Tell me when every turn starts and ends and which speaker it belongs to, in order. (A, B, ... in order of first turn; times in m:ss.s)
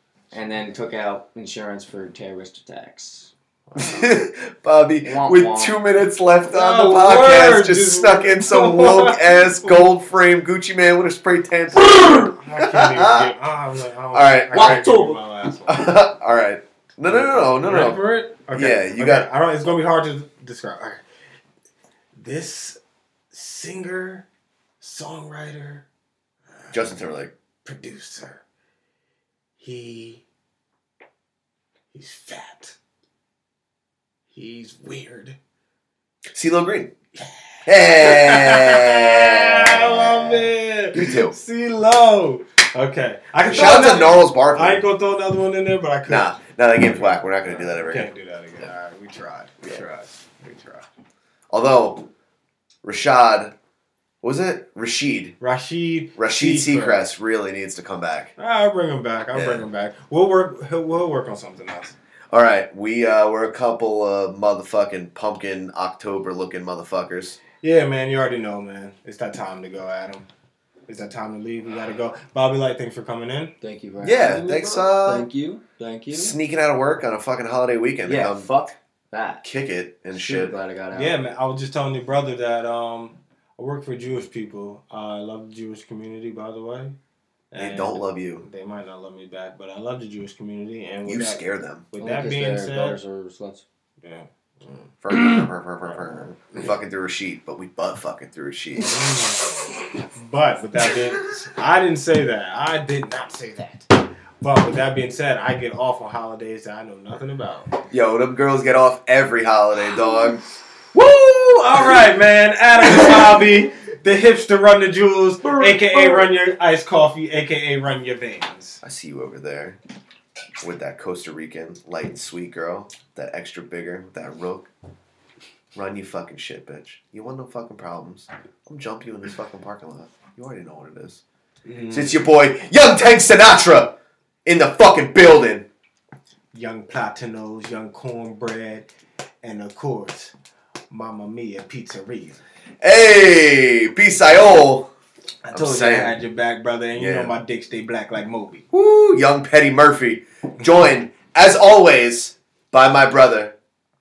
0:00.3-0:03.3 A
0:03.7-0:04.1 B
0:03.8-0:13.3 C
0:05.0-0:05.8 A
0:06.5-0:09.9 B
0:11.8-0:15.9 B
0:14.1-0:18.0 C
0:17.0-0:21.0 B
0:18.5-0:19.3 C
0:22.1-0:22.8 B
0:23.3-0:24.2 B
0:24.8-0:25.8 B
0:26.5-0:27.0 B
0:26.7-0:27.3 C
0:27.6-0:28.4 B
0:29.6-0:30.2 B
0:31.9-0:32.8 B
0:34.3-0:35.4 B
0:36.3-0:36.9 C
0:37.2-0:50.9 B
0:37.7-0:41.4 C
0:43.5-0:44.8 C
0:46.1-0:48.1 C
0:51.5-0:52.1 C
0:52.8-0:53.5 C
0:54.2-0:55.4 C
0:55.4-0:57.1 B
0:56.2-0:58.3 C
0:58.4-1:02.0 B
0:59.3-0:59.6 C
1:02.3-1:07.4 C
1:07.6-1:10.3 B
1:10.9-1:13.5 B
1:13.6-1:16.4 A
1:14.0-1:15.3 C
1:16.1-1:18.5 C
1:18.0-1:19.4 A
1:19.4-1:20.6 C
1:20.1-1:21.2 A
1:20.9-1:27.0 B
1:27.5-1:33.0 B
1:27.6-1:28.5 C
1:31.0-1:31.8 C
1:32.0-1:33.6 A
1:34.0-1:36.5 B
1:35.0-1:39.0 C
1:38.8-1:43.9 B
1:44.4-1:47.7 B
1:47.9-1:50.4 C
1:50.9-1:58.8 B
1:55.4-1:56.2 C
1:58.8-1:59.8 C
2:00.6-2:04.7 C
2:05.8-2:11.2 C
2:11.6-2:12.2 B
2:11.9-2:15.7 C
2:16.5-2:18.9 B
2:19.4-2:20.3 B
2:20.9-2:22.4 B
2:22.8-2:24.9 C
2:25.4-2:28.6 B
2:25.5-2:26.2 C
2:27.0-2:27.3 C
2:28.7-2:33.6 C